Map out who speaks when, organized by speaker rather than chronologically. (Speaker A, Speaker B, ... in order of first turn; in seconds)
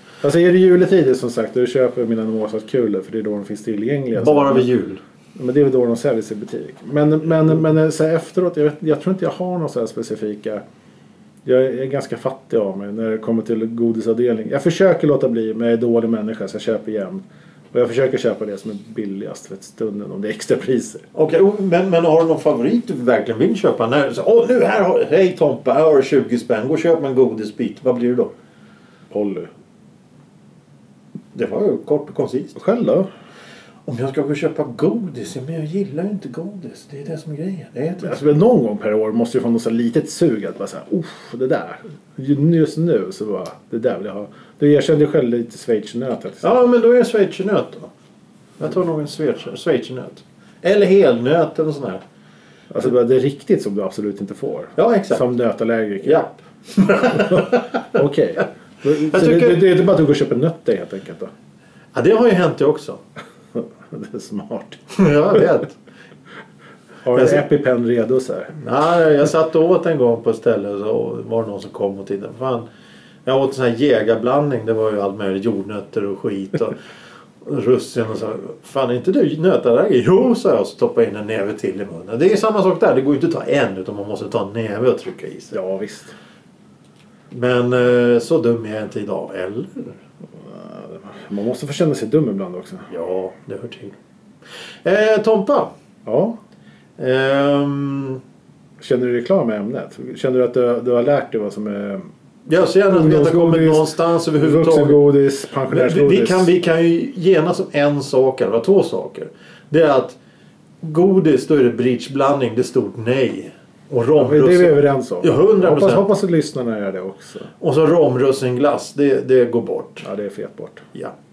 Speaker A: 0.2-4.7, 5.3-10.6, 11.4-21.1, 29.1-29.5, 32.5-33.1, 38.0-46.7, 52.7-56.2, 56.9-61.3, 63.5-65.4, 67.0-68.5, 85.5-86.1, 90.4-92.9, 96.0-96.3, 98.8-102.1, 102.8-106.5, 114.2-117.5, 120.0-120.8
Speaker B: 4.1-5.0, 21.1-28.3, 31.3-32.6, 33.9-38.2, 46.4-47.9, 48.6-52.0, 54.8-55.2, 56.0-58.0, 59.0-59.6, 61.9-63.0, 64.9-65.7, 67.1-67.4, 68.5-72.7, 73.2-76.8, 77.4-85.5, 87.3-90.0, 92.9-93.9, 94.8-95.7, 97.0-98.2, 102.5-105.0, 105.7-110.2, 110.8-116.0, 117.6-120.0